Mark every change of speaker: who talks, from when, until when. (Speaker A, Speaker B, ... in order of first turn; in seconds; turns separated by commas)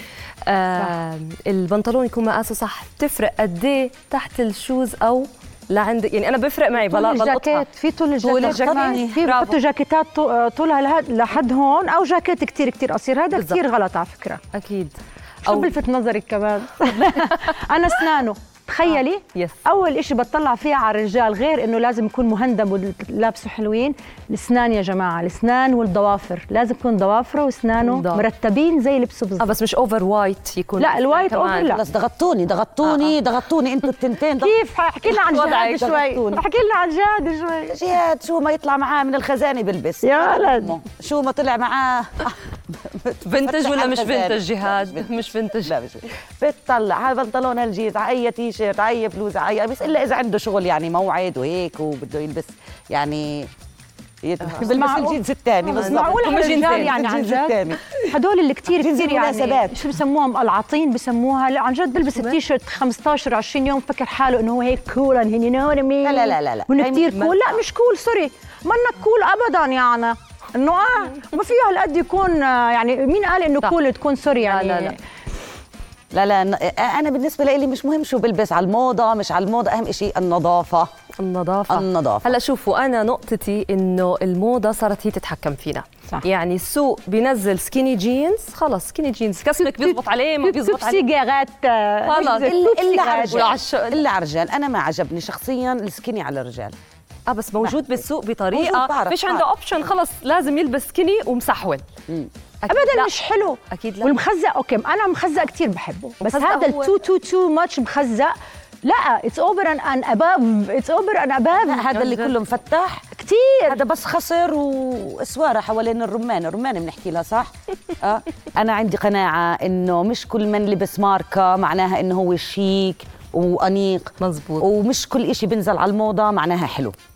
Speaker A: 0.5-7.7, Speaker B: 6.8-14.4, Speaker A: 8.2-9.6, Speaker C: 8.2-9.2, Speaker A: 13.3-13.6, Speaker A: 14.5-15.8, Speaker B: 15.4-29.5, Speaker A: 18.9-19.6, Speaker A: 27.8-28.2, Speaker A: 29.4-31.8, Speaker B: 30.8-31.8, Speaker C: 31.7-34.5, Speaker A: 32.8-33.1, Speaker B: 34.4-37.8, Speaker A: 35.1-35.9, Speaker C: 35.7-36.4, Speaker C: 37.7-53.5, Speaker B: 40.0-40.7, Speaker A: 43.2-45.7, Speaker C: 54.2-57.8, Speaker B: 54.7-75.0, Speaker A: 55.7-57.0, Speaker C: 58.8-59.8, Speaker A: 62.0-62.4, Speaker C: 66.0-67.1, Speaker A: 67.1-67.6, Speaker A: 74.4-75.0, Speaker C: 76.1-80.9, Speaker A: 81.2-91.0, Speaker C: 81.7-82.3, Speaker B: 89.6-93.6, Speaker A: 92.0-94.0, Speaker C: 92.3-96.8, Speaker A: 97.3-101.8, Speaker C: 97.6-98.0, Speaker C: 98.5-99.5, Speaker A: 102.6-103.1, Speaker B: 102.7-112.3, Speaker A: 103.7-104.2, Speaker A: 106.2-106.9, Speaker C: 111.7-113.1, Speaker B: 113.2-113.8, Speaker C: 113.7-117.5, Speaker C: 118.0-127.0, Speaker A: 124.2-124.7